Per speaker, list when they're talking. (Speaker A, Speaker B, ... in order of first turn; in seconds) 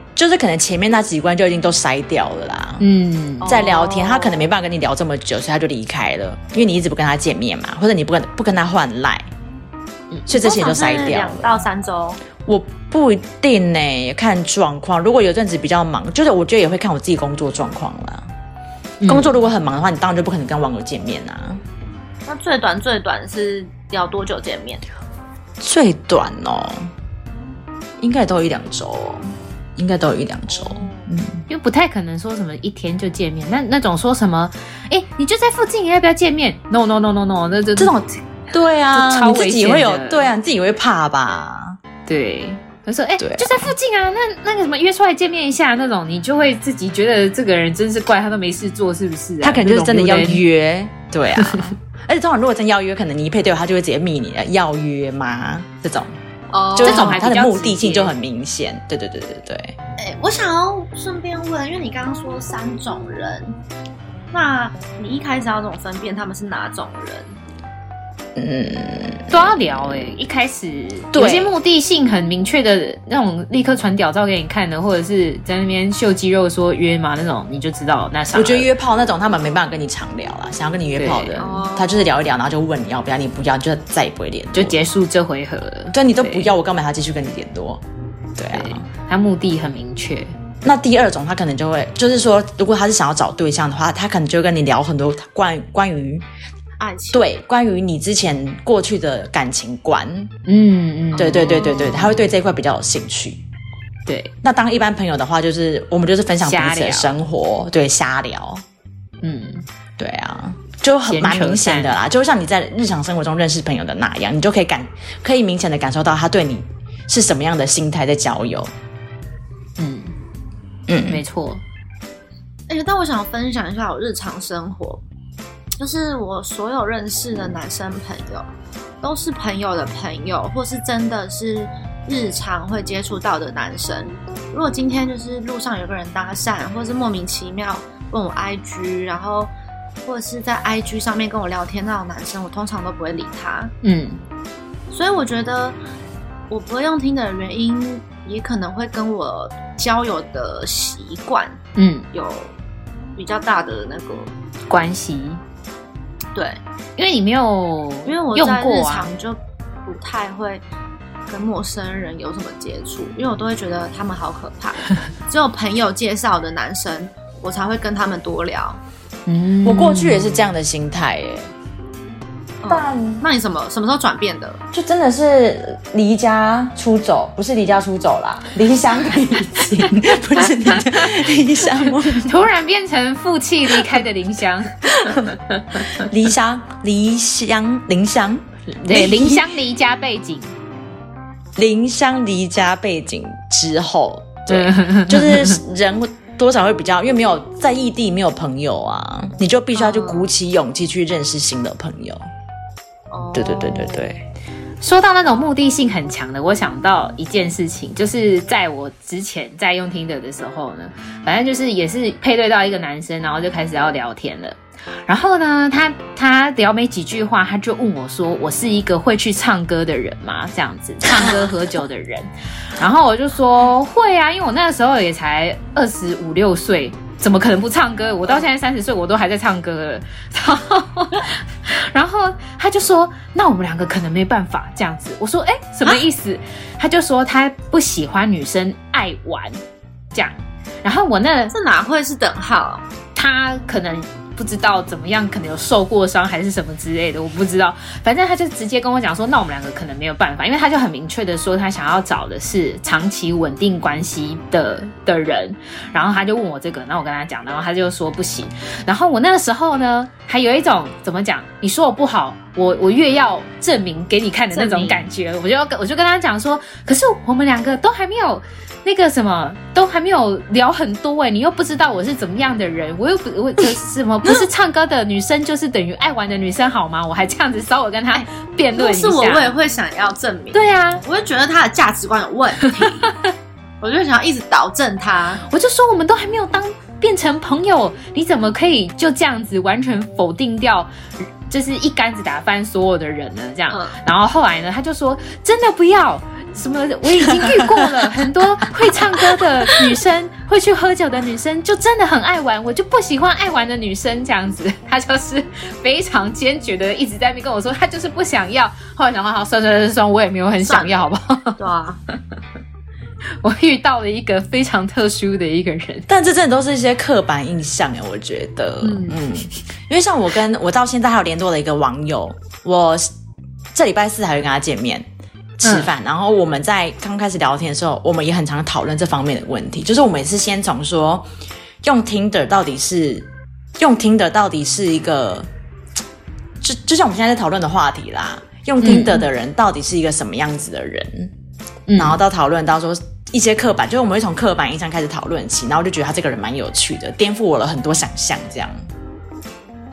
Speaker A: 0.1-2.9, 3.5-9.3, 10.3-11.6, 12.4-18.3, 19.1-21.6, 25.6-26.9, 28.0-31.4, 37.8-41.8, 43.2-43.7, 49.4-56.2, 56.7-59.8, 68.3-69.3, 71.1-71.5, 78.3-84.8, 85.9-87.8, 88.4-88.8, 90.6-96.2, 97.1-100.3, 101.2-103.4, 104.4-108.6, 110.0-118.7, 120.9-121.2, 169.6-171.5, 172.7-173.2, 174.7-182.4, 184.9-189.5, 191.6-202.3, 203.3-204.2, 221.2-221.5, 297.4-297.9, 316.1-323.1, 323.7-325.1, 325.6-331.3, 331.8-335.5, 336.6-341.3, 341.9-348.9
Speaker B: 2.8-3.5, 19.0-19.4, 31.5-38.0, 38.9-40.3, 42.1-50.4, 56.8-58.1, 69.3-78.7, 81.0-81.4, 84.5-86.5, 88.5-90.3, 100.5-102.1, 104.0-104.3, 106.4-107.2, 109.2-109.6, 111.1-111.9, 119.8-120.1, 121.1-121.6, 143.8-144.2, 151.8-152.1, 154.7-155.4, 157.0-159.1, 169.3-170.5, 182.2-186.0, 188.7-190.6, 194.5-195.6, 204.8-239.6, 240.1-241.5, 243.1-279.5, 280.5-281.0, 285.4-311.6, 313.4-316.1, 325.6-325.9, 338.8-339.2, 341.9-342.2
Speaker C: 3.4-4.5, 10.3-12.2, 22.2-24.8, 30.5-31.1, 56.5-57.2, 60.0-63.6, 64.3-67.3, 81.4-82.1, 96.8-97.3, 122.7-125.0, 125.8-128.4, 129.0-139.5, 140.0-143.7, 144.9-145.8, 146.5-151.6, 152.1-152.5, 153.2-154.3, 156.3-156.6, 158.1-160.6, 161.3-168.8, 172.6-174.6, 199.7-200.3, 203.1-204.1, 241.5-242.8, 264.5-265.0, 278.1-283.1, 283.8-285.4, 293.7-294.0, 310.6-311.0, 311.6-312.0, 318.8-319.2